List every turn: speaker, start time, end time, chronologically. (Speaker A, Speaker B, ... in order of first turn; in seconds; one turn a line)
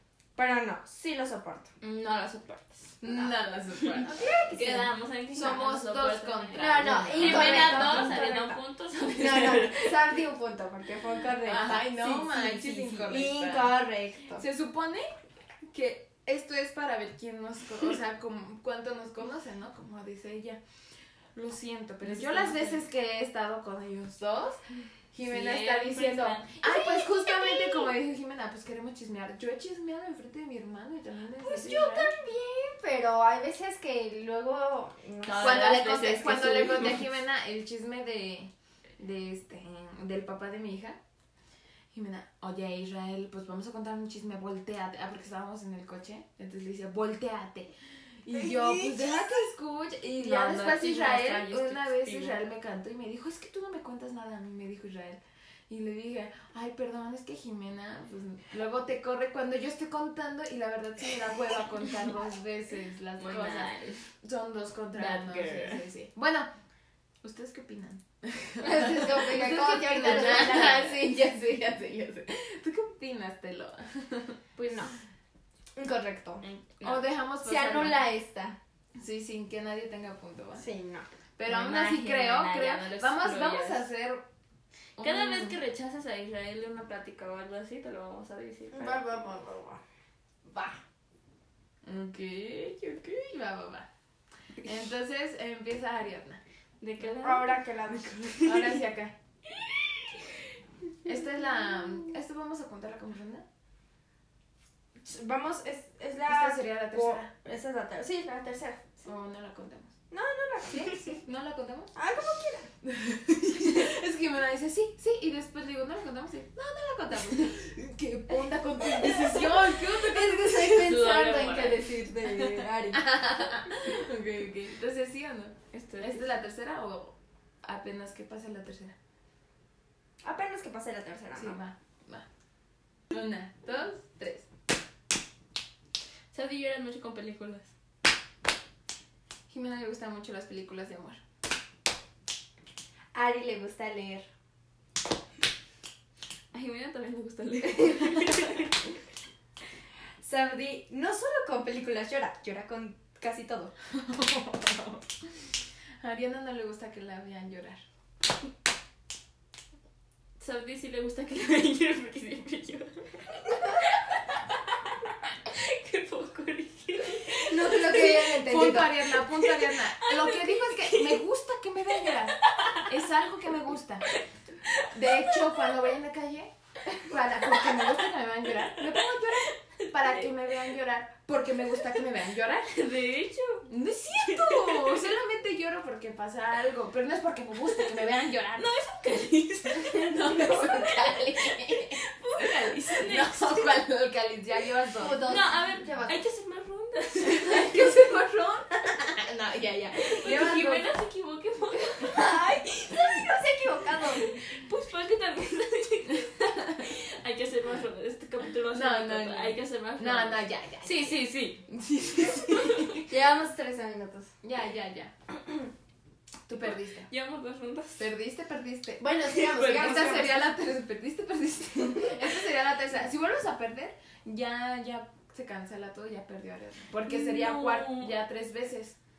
Speaker A: 0.4-1.7
Speaker B: 1.8-3.0
Speaker C: 3.0-4.7
Speaker B: 3.9-10.0
Speaker A: 4.0-4.8
Speaker C: 5.3-8.2
Speaker A: 6.5-8.6
Speaker A: 9.1-14.4
Speaker C: 11.4-13.8
Speaker C: 14.4-15.1
Speaker C: 15.7-20.6
Speaker C: 21.4-24.6
Speaker B: 22.2-22.7
Speaker C: 25.1-32.1
Speaker B: 25.2-26.6
Speaker A: 26.6-27.9
Speaker A: 31.4-36.5
Speaker B: 35.2-37.0
Speaker C: 35.4-41.0
Speaker C: 41.9-66.5
Speaker A: 48.3-49.5
Speaker B: 50.2-52.4
Speaker B: 63.2-64.1
Speaker B: 64.9-65.8
Speaker C: 67.2-74.4
Speaker A: 68.6-71.1
Speaker A: 74.6-74.9
Speaker B: 74.6-74.8
Speaker A: 75.8-76.4
Speaker B: 76.4-77.0
Speaker C: 76.8-78.0
Speaker A: 77.4-78.6
Speaker C: 79.0-80.7
Speaker A: 80.6-81.1
Speaker C: 81.4-84.2
Speaker B: 81.5-83.9
Speaker C: 85.0-85.6
Speaker B: 85.0-89.1
Speaker A: 88.7-89.8
Speaker A: 90.5-90.8
Speaker C: 91.8-93.9
Speaker C: 94.6-96.4
Speaker B: 96.8-97.6
Speaker A: 97.2-98.7
Speaker C: 98.4-99.2
Speaker C: 101.0-103.5
Speaker A: 105.0-109.0
Speaker C: 106.3-107.3
Speaker C: 109.0-109.9
Speaker A: 110.1-111.2
Speaker C: 110.9-111.9
Speaker A: 112.0-112.7
Speaker C: 112.8-121.0
Speaker A: 118.8-123.2
Speaker B: 120.8-121.9
Speaker C: 122.3-128.9
Speaker B: 125.7-126.3
Speaker A: 130.2-131.6
Speaker C: 131.4-132.3
Speaker C: 133.1-134.5
Speaker B: 136.3-137.7
Speaker C: 139.5-141.2
Speaker A: 143.1-144.3
Speaker B: 146.5-148.8
Speaker A: 150.2-153.7
Speaker C: 153.9-155.0
Speaker C: 156.0-157.8
Speaker B: 160.4-164.4
Speaker B: 165.5-168.3
Speaker A: 167.3-169.1
Speaker C: 167.8-174.1
Speaker B: 169.2-171.2
Speaker B: 172.1-172.9
Speaker B: 174.1-175.4
Speaker C: 174.9-182.8
Speaker B: 178.8-179.2
Speaker B: 179.7-180.3
Speaker B: 182.7-185.0
Speaker C: 183.7-188.7
Speaker B: 188.6-193.8
Speaker C: 189.8-195.3
Speaker A: 195.0-196.2
Speaker B: 195.3-198.1
Speaker C: 197.2-200.9
Speaker B: 200.0-203.3
Speaker A: 202.1-204.3
Speaker B: 204.0-213.1
Speaker C: 208.7-213.0
Speaker A: 213.1-214.3
Speaker C: 214.4-215.1
Speaker C: 216.5-217.1
Speaker B: 216.6-218.1
Speaker C: 218.0-229.0
Speaker A: 219.0-220.5
Speaker B: 219.3-220.3
Speaker B: 227.1-228.2